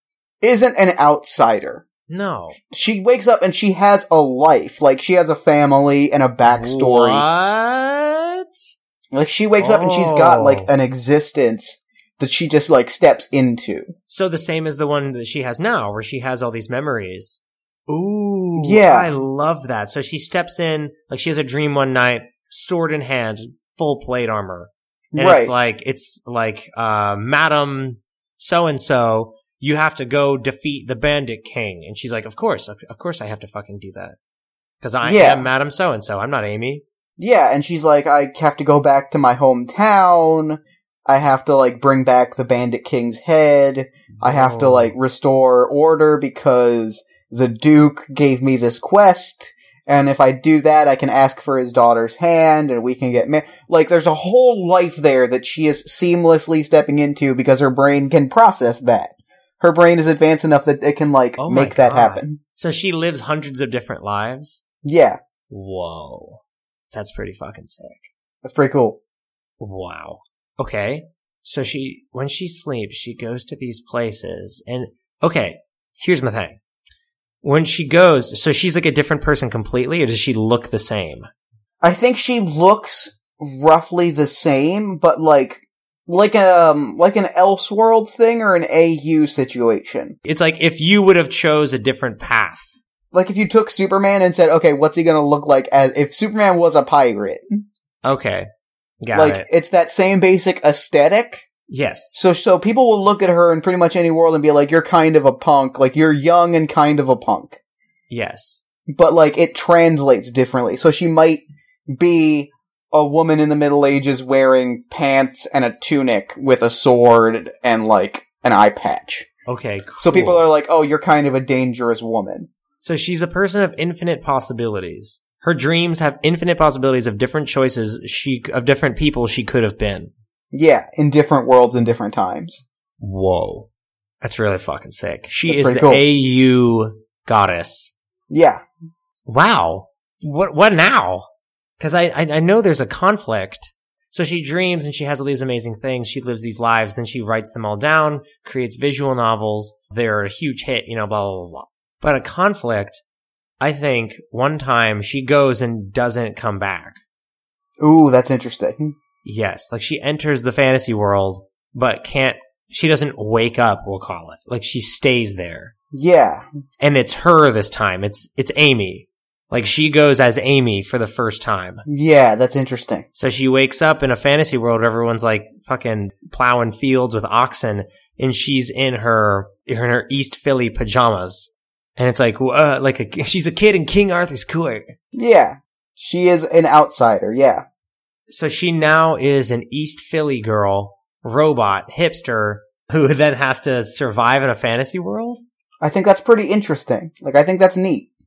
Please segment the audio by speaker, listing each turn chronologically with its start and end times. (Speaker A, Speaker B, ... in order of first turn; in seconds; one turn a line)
Speaker A: 0.4-1.8
Speaker B: 2.1-2.6
Speaker A: 2.7-7.2
Speaker B: 6.5-8.5
Speaker A: 9.1-13.9
Speaker B: 9.6-10.7
Speaker B: 14.1-34.2
Speaker A: 18.6-19.1
Speaker A: 25.1-25.5
Speaker B: 34.8-36.8
Speaker A: 35.0-35.5
Speaker A: 37.2-62.4
Speaker B: 44.2-44.9
Speaker B: 61.4-64.6
Speaker A: 64.8-65.2
Speaker B: 65.5-68.1
Speaker A: 68.4-69.0
Speaker B: 69.6-76.6
Speaker B: 77.4-81.3
Speaker A: 81.8-90.2
Speaker B: 90.2-92.7
Speaker A: 93.1-97.5
Speaker B: 98.0-98.5
Speaker B: 99.0-99.5
Speaker A: 99.1-101.5
Speaker B: 101.7-102.2
Speaker A: 102.1-107.6
Speaker B: 108.1-108.6
Speaker A: 108.9-119.3
Speaker B: 119.5-120.5
Speaker A: 120.0-122.5
Speaker B: 122.8-130.1
Speaker A: 130.5-132.6
Speaker B: 133.0-133.7
Speaker B: 134.2-137.9
Speaker A: 135.4-136.0
Speaker A: 138.3-138.6
Speaker B: 139.2-153.0
Speaker B: 153.6-157.0
Speaker A: 157.8-158.9
Speaker B: 159.2-165.7
Speaker A: 165.9-166.4
Speaker B: 166.8-171.8
Speaker A: 171.8-173.0
Speaker B: 173.1-184.9
Speaker A: 185.1-187.6
Speaker B: 188.3-195.4
Speaker A: 195.8-198.1